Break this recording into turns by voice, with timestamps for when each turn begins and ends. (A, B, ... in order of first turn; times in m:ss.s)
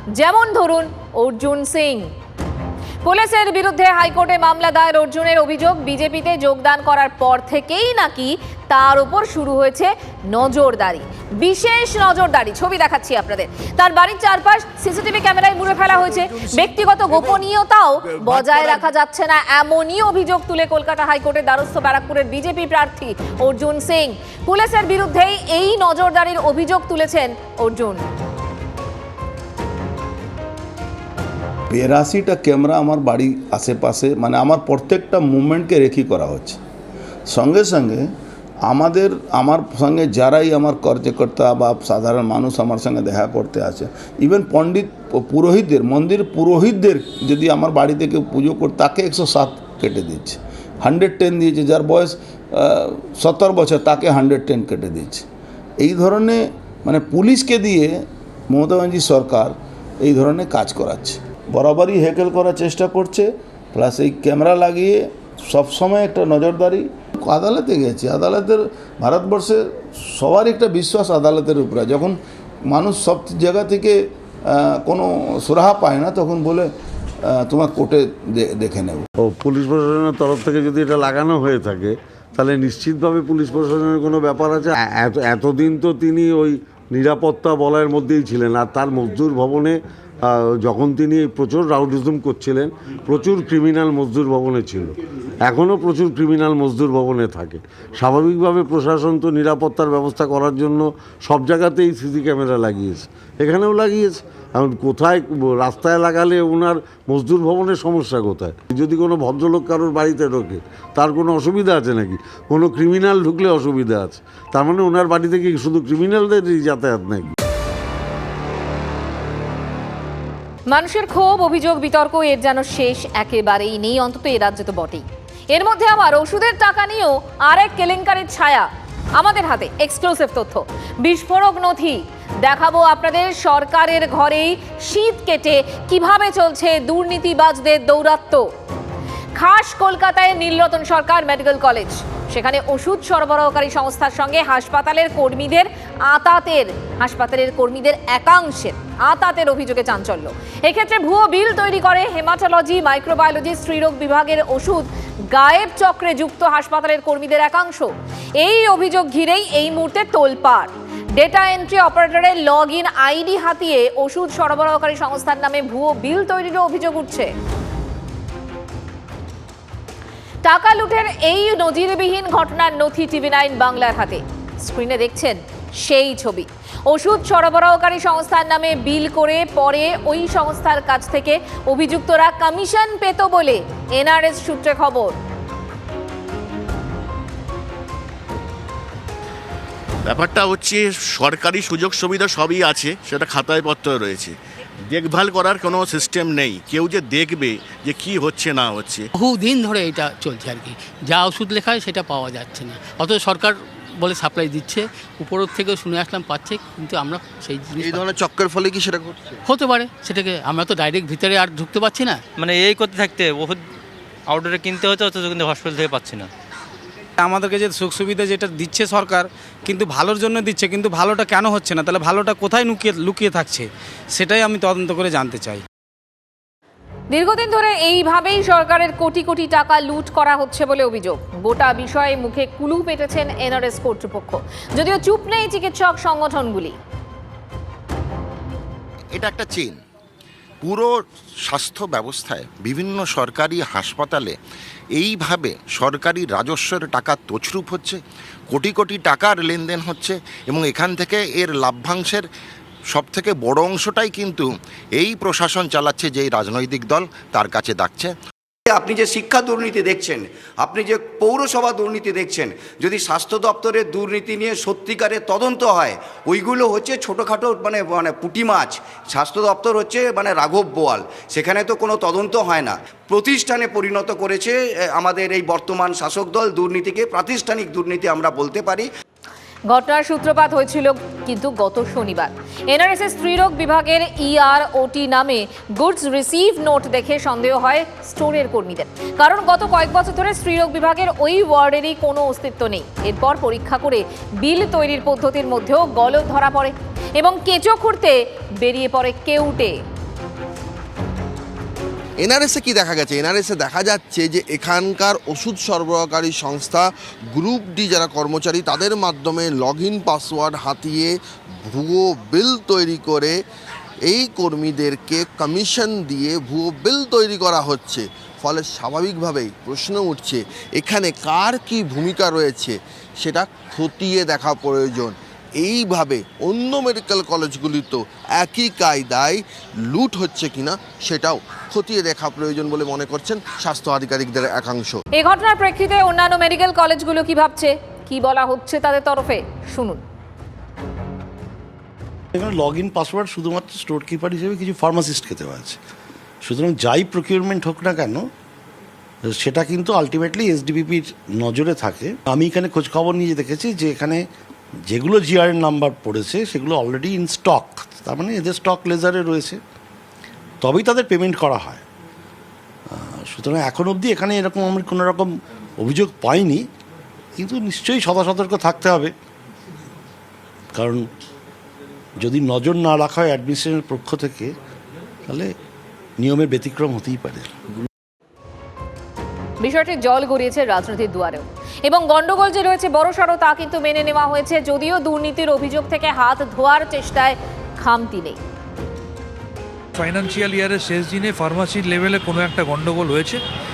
0:00.2-0:02.1 A
0:03.0-0:28.0 A
0:31.7-0:36.6 B
0:37.3-0:38.0 B
0:38.7-0:55.3 B
0:55.8-0:57.9 B
0:58.5-1:12.2 B
1:12.7-1:14.0 B
1:14.5-1:16.7 B
1:17.3-1:19.1 B
1:19.2-1:57.3 C
2:00.7-2:18.5 A
2:19.4-2:37.9 A
2:38.4-2:47.3 A
2:50.4-3:05.2 A
3:10.1-3:14.3 D
3:14.9-3:19.0 D
3:19.2-3:28.3 E
3:27.8-3:29.4 F
3:29.5-3:32.2 E
3:32.4-3:33.6 G
3:34.4-3:36.2 G
3:37.2-3:45.6 H
3:47.1-3:56.8 A
3:59.1-3:59.8 I
4:00.6-4:00.9 I
4:01.4-4:04.4 I
4:05.0-4:08.0 I
4:08.5-4:12.2 I
4:12.9-4:14.5 I
4:15.0-4:18.1 I
4:18.7-4:28.5 J
4:29.1-4:38.8 J
4:39.7-4:59.8 A
5:02.2-5:13.4 F
5:14.1-5:35.0 F
5:35.2-5:40.0 A
5:42.4-5:45.8 K
5:46.4-5:48.2 K
5:49.4-5:54.2 K
5:54.9-5:59.6 K
6:00.6-6:01.8 K
6:02.9-6:06.7 K
6:07.4-6:09.1 K
6:10.8-6:11.0 K
6:12.2-6:14.5 K
6:16.2-6:17.5 K
6:19.6-6:28.4 A
6:30.0-6:33.4 L